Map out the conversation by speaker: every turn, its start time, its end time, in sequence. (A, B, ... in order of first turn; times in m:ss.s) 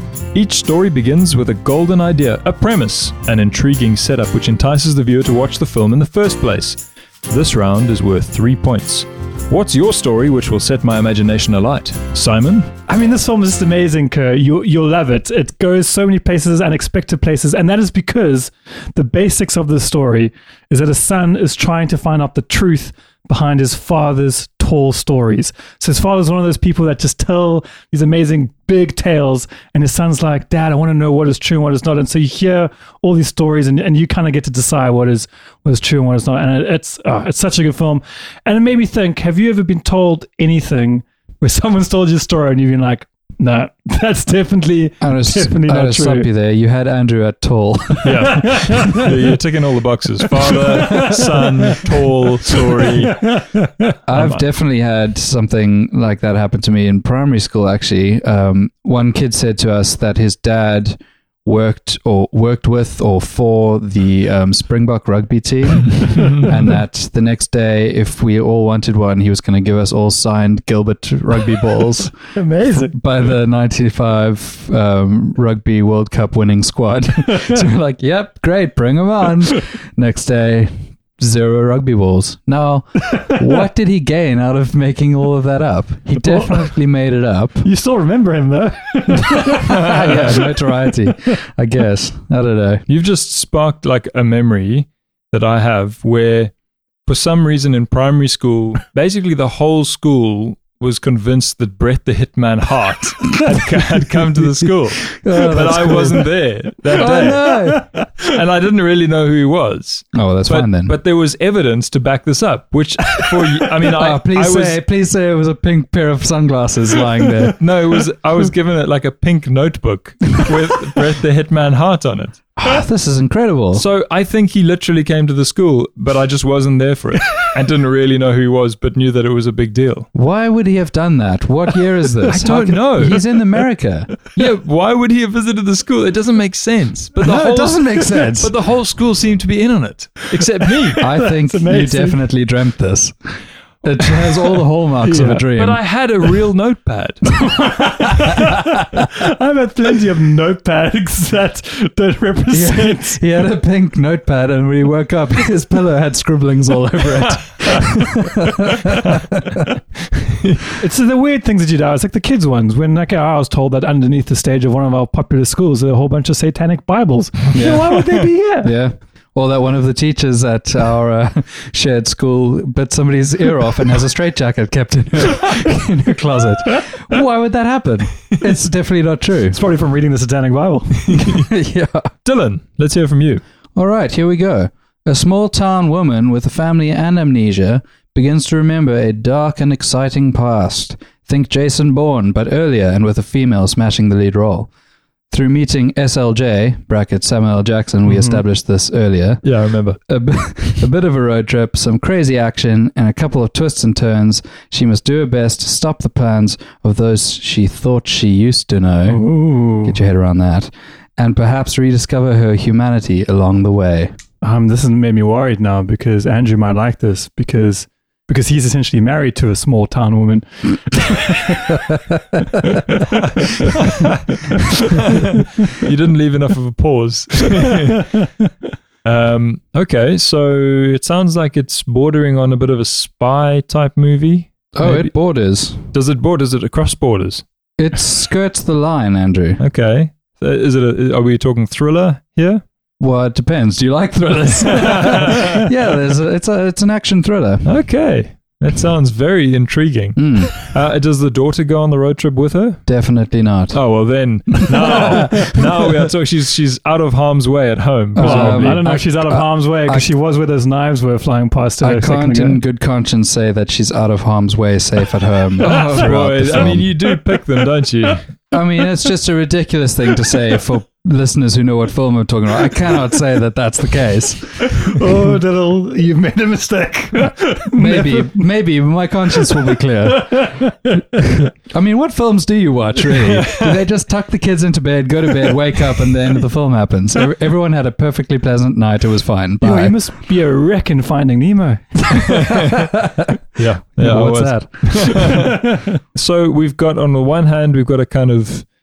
0:00.3-0:12.7 A
0:12.9-0:46.3 B
0:45.0-0:48.8 C
0:48.0-0:53.2 A
0:48.3-0:49.0 B
0:50.6-0:51.2 B
0:53.1-0:53.7 B
0:54.1-1:12.1 C
0:54.1-0:54.4 A
1:12.3-1:13.0 B
1:12.7-1:27.6 C
1:26.2-1:26.7 B
1:27.6-1:30.7 B
1:29.6-1:32.8 C
1:32.9-1:36.5 A
1:37.0-1:47.5 A
1:45.2-1:46.3 C
1:46.9-1:47.8 C
1:47.0-1:48.0 B
1:48.2-1:54.8 A
1:50.1-1:50.9 C
1:53.8-1:57.6 C
1:57.6-2:02.5 A
2:02.6-2:03.8 C
2:03.7-2:10.1 A
2:10.1-2:14.2 C
2:12.3-2:13.2 A
2:14.3-2:21.0 A
2:17.2-2:18.5 C
2:21.0-2:22.2 B
2:21.0-2:23.1 C
2:23.8-2:25.8 C
2:25.0-2:25.5 B
2:25.5-2:27.3 A
2:27.5-2:33.2 B
2:32.5-2:39.7 C
2:40.8-2:48.7 B
2:47.5-2:48.0 C
2:48.6-2:59.6 C
2:59.5-3:01.0 B
3:01.1-3:01.5 A
3:01.1-3:02.1 C
3:02.2-3:03.4 A
3:03.8-3:14.7 C
3:15.3-3:19.4 C
3:19.4-3:20.0 A
3:20.1-3:34.2 C
3:29.1-3:30.0 B
3:34.4-3:41.8 B
3:43.6-3:44.2 A
3:45.1-3:48.1 A
3:49.0-3:55.1 A
3:54.7-3:55.8 C
3:55.9-3:57.4 A
3:57.8-3:59.6 C
3:59.6-4:02.6 A
4:03.0-4:07.6 C
4:05.0-4:05.4 A
4:07.6-4:12.8 A
4:10.2-4:10.5 C
4:12.8-4:13.8 C
4:13.7-4:18.8 A
4:14.6-4:15.1 C
4:18.1-4:20.1 C
4:18.2-4:22.6 B
4:21.8-4:26.9 C
4:25.6-4:28.2 A
4:28.5-4:35.0 C
4:34.6-4:38.4 B
4:37.8-4:40.5 C
4:39.4-4:41.0 B
4:41.4-4:50.0 C
4:49.6-4:52.7 B
4:52.3-4:52.9 A
4:52.6-4:55.4 C
4:53.6-4:58.6 A